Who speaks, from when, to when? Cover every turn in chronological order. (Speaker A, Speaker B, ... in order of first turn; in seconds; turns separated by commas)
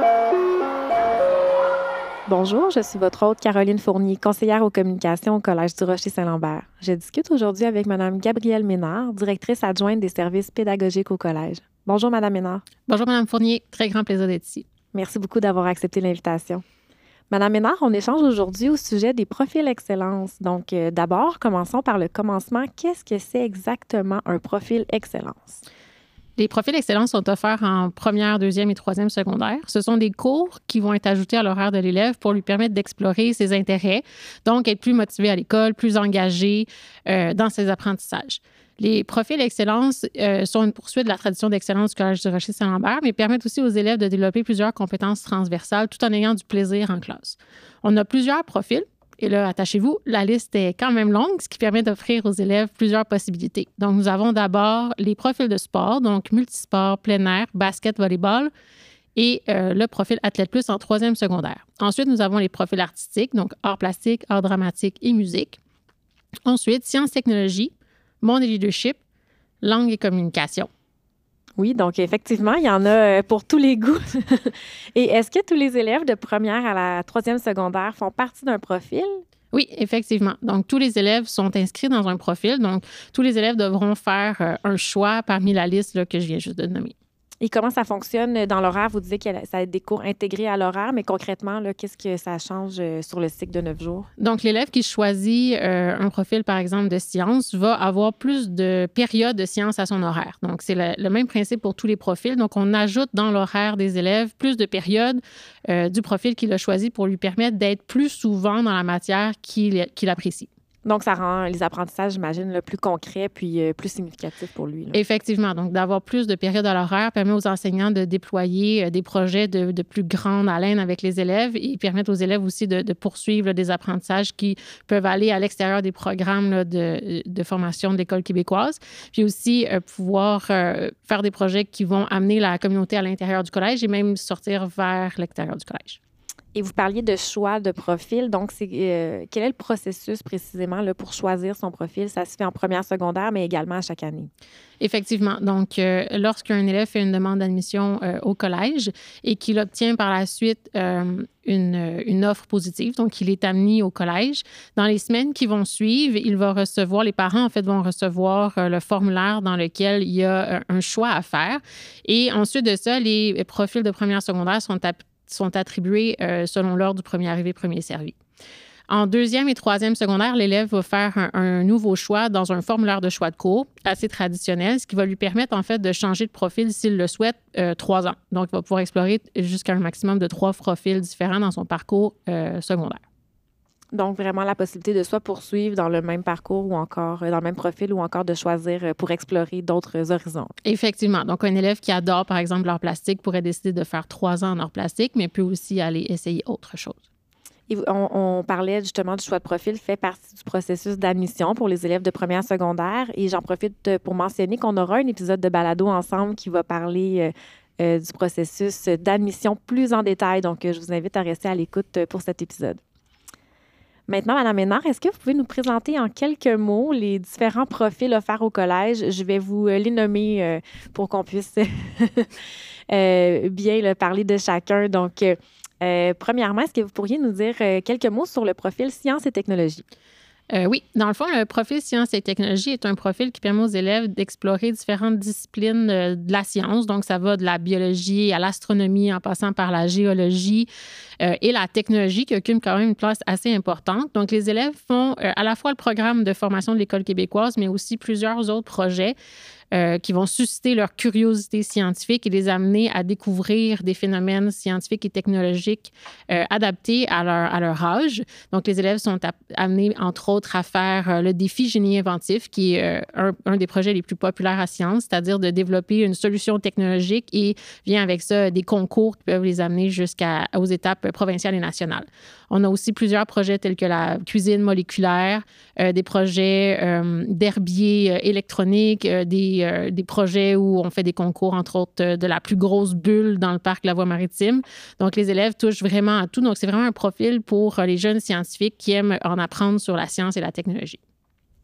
Speaker A: 2.3-12.6, Speaker B: 12.9-14.7, Speaker A: 14.9-16.6, Speaker A: 17.3-25.6, Speaker B: 26.4-58.5, Speaker B: 59.2-65.6, Speaker B: 66.5-69.0, Speaker B: 69.6-70.7, Speaker A: 71.6-79.2, Speaker B: 79.5-86.9, Speaker A: 87.4-94.1, Speaker B: 94.2-110.5, Speaker A: 110.8-115.0, Speaker B: 114.9-136.0, Speaker A: 136.6-144.3, Speaker B: 144.8-168.2, Speaker B: 168.9-183.0, Speaker A: 183.9-190.5, Speaker B: 190.7-197.0, Speaker A: 197.7-212.8, Speaker A: 214.1-222.3, Speaker A: 222.9-229.8, Speaker B: 230.5-240.7, Speaker B: 241.2-249.2, Speaker B: 249.7-291.0